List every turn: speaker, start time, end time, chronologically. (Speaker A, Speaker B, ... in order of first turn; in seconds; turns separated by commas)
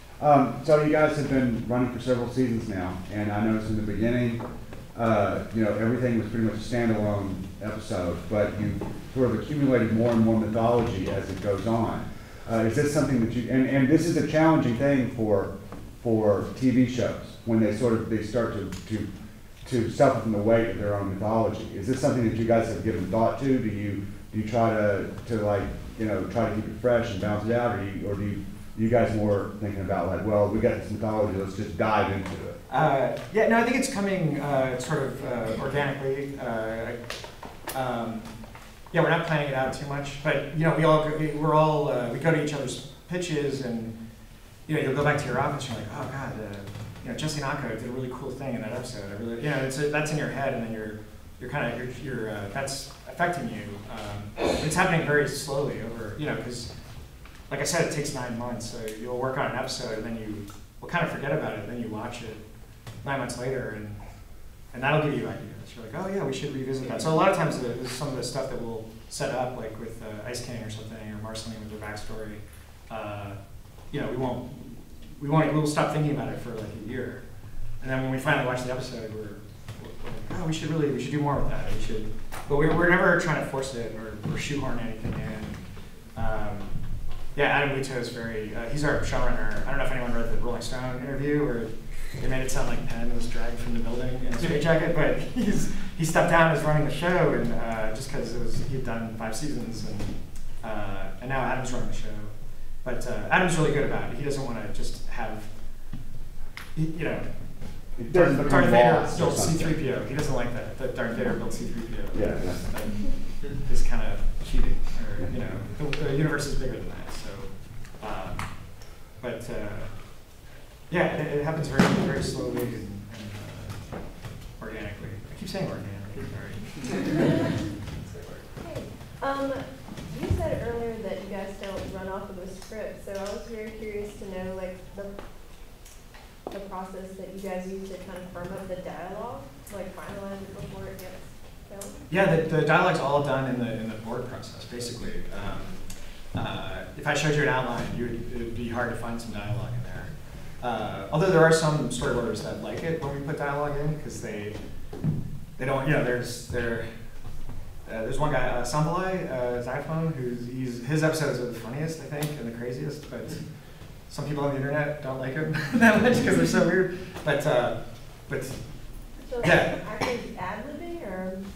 Speaker A: 0.2-32.6, Speaker B: 32.7-77.2, Speaker C: 66.8-67.1, Speaker B: 77.8-85.6, Speaker B: 86.1-105.5, Speaker B: 106.8-128.5, Speaker A: 108.0-109.8, Speaker A: 112.1-112.8, Speaker C: 128.6-135.2, Speaker C: 136.5-142.1, Speaker B: 142.1-154.6, Speaker B: 155.6-156.9, Speaker B: 157.8-169.8, Speaker C: 169.2-171.4